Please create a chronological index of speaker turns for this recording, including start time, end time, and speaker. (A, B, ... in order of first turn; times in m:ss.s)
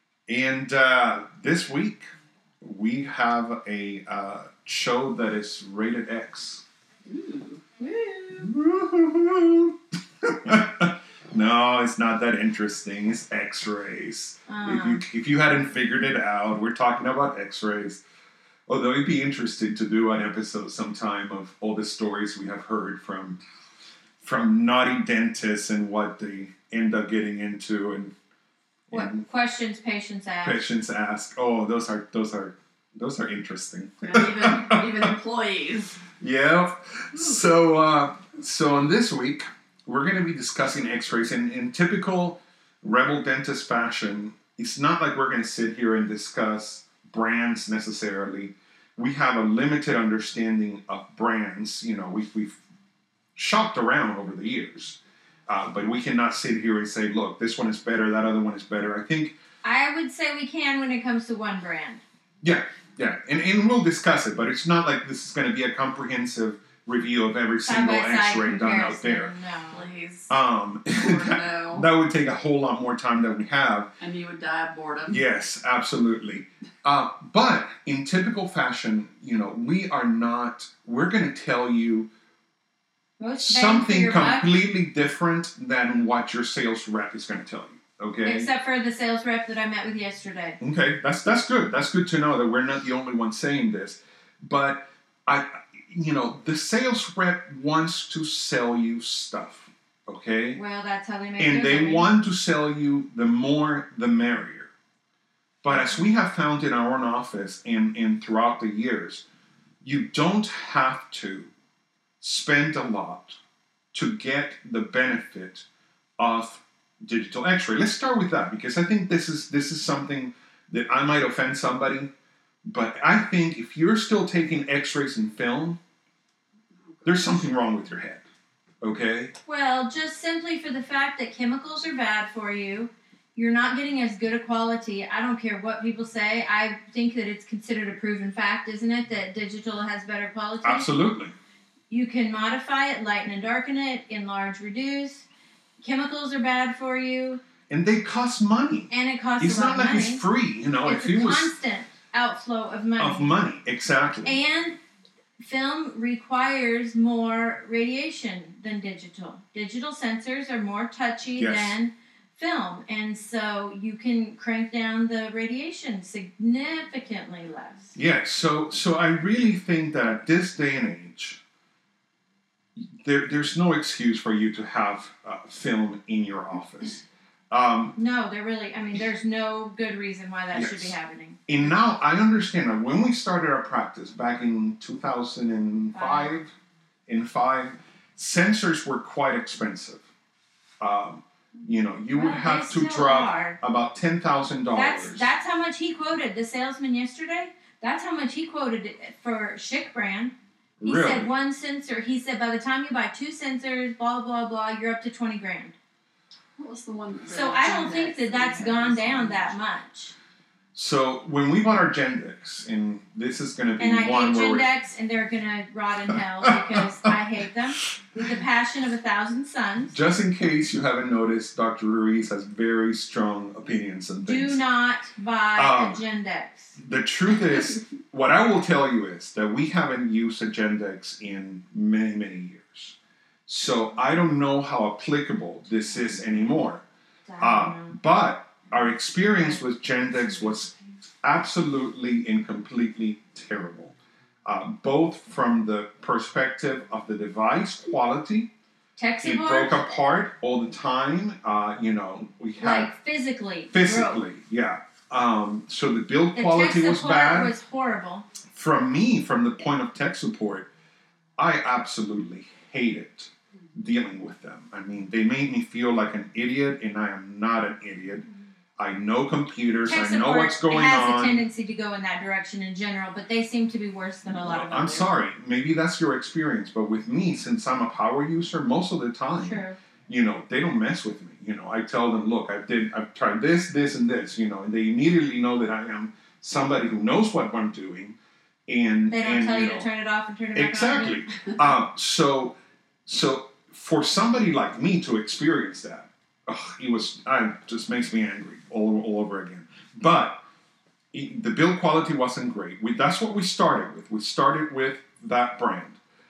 0:00.3-0:02.1 A
0:02.6-0:06.6 A
0:07.0-0:07.7 B
0:07.8-0:08.4 C
0:08.4-0:18.0 A
0:14.5-0:15.0 C
0:18.7-0:23.4 A
0:24.2-0:28.1 A
0:28.9-0:29.2 A
0:28.9-0:30.6 C
0:30.4-0:35.1 A
0:34.1-0:36.0 B
0:36.2-0:52.6 A
0:53.3-0:59.4 A
0:59.6-1:02.0 C
1:02.4-1:09.3 A
1:07.6-1:09.8 C
1:09.7-1:10.3 B
1:10.3-1:13.9 A
1:10.9-1:11.8 B
1:14.0-1:15.2 B
1:15.1-1:22.1 A
1:23.2-1:24.5 C
1:23.4-1:28.5 A
1:28.2-1:30.6 C
1:30.6-1:40.6 A
1:40.5-1:42.1 C
1:41.4-1:44.7 A
1:45.6-1:49.2 A
1:49.8-1:51.5 A
1:52.2-1:53.4 A
1:53.9-1:55.6 A
1:56.2-2:02.1 A
2:02.6-2:05.8 A
2:06.9-2:07.5 B
2:07.0-2:08.2 A
2:08.8-2:09.3 A
2:09.4-2:20.9 C
2:20.6-2:21.3 A
2:21.9-2:25.3 C
2:25.8-2:27.4 C
2:27.7-2:31.5 A
2:28.9-2:30.2 C
2:30.8-2:33.3 C
2:33.0-2:34.4 A
2:34.2-2:34.8 C
2:35.4-2:47.9 C
2:41.4-2:41.8 A
2:47.9-2:51.4 A
2:52.8-2:57.9 A
2:58.0-3:01.4 C
3:00.5-3:01.0 A
3:01.5-3:06.5 A
3:05.9-3:06.4 C
3:07.1-3:10.0 A
3:10.8-3:15.3 A
3:12.1-3:13.6 C
3:14.7-3:20.3 C
3:20.8-3:21.3 A
3:20.8-3:25.7 C
3:26.6-3:29.5 B
3:27.3-3:30.1 C
3:30.7-3:34.7 A
3:33.8-3:40.0 C
3:36.1-3:37.1 A
3:39.9-3:44.6 A
3:44.2-3:46.8 C
3:45.6-3:46.0 A
3:46.8-3:53.0 A
3:53.5-3:56.8 A
3:57.3-3:58.0 C
3:57.4-4:00.7 A
4:01.2-4:03.9 A
4:04.4-4:08.5 A
4:09.0-4:09.8 C
4:09.2-4:12.9 A
4:12.6-4:14.2 C
4:13.7-4:17.5 A
4:16.3-4:18.2 C
4:18.5-4:20.7 A
4:21.4-4:28.2 A
4:28.8-4:31.4 A
4:29.8-4:35.1 C
4:34.3-4:48.2 A
4:39.4-4:39.8 C
4:48.7-4:49.9 A
4:49.1-4:51.2 C
4:50.5-5:00.4 A
5:01.1-5:06.0 A